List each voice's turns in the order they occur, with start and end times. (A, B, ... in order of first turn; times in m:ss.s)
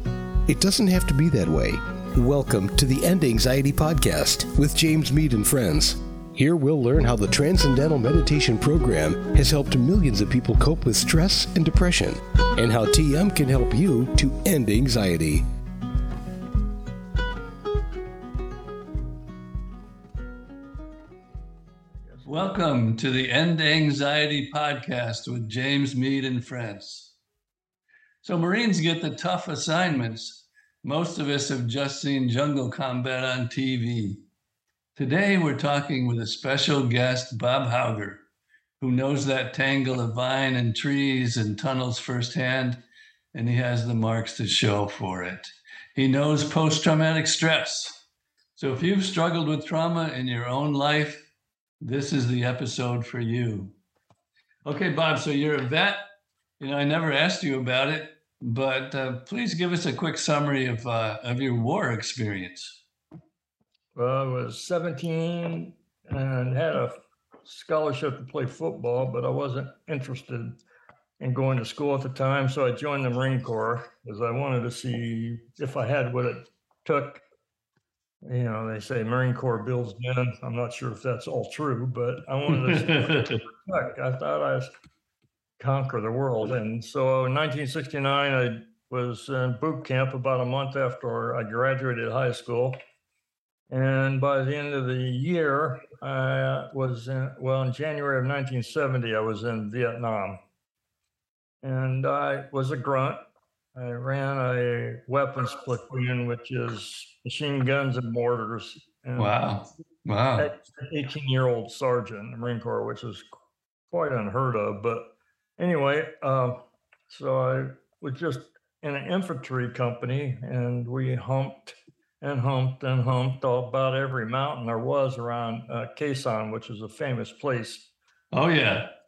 0:00.5-0:15.4 A
0:22.0-0:22.3 B
0:22.2-0:27.1 C
0:28.2-0:34.2 C
0:35.0-0:38.2 C
0:38.8-0:42.8 C
0:43.3-0:48.0 C
0:48.6-0:51.2 C
0:51.8-0:53.7 C
0:54.6-0:56.0 C
0:56.6-1:02.8 C
1:03.9-1:10.5 B
1:11.2-1:17.2 B
1:18.2-1:24.7 B
1:22.5-1:23.4 C
1:25.6-1:32.8 B
1:33.7-1:40.4 B
1:41.6-1:43.2 B
1:43.7-1:49.3 B
1:49.2-1:50.5 C
1:50.4-1:53.3 B
1:53.9-1:55.0 B
1:55.6-2:07.8 B
2:08.3-2:08.9 C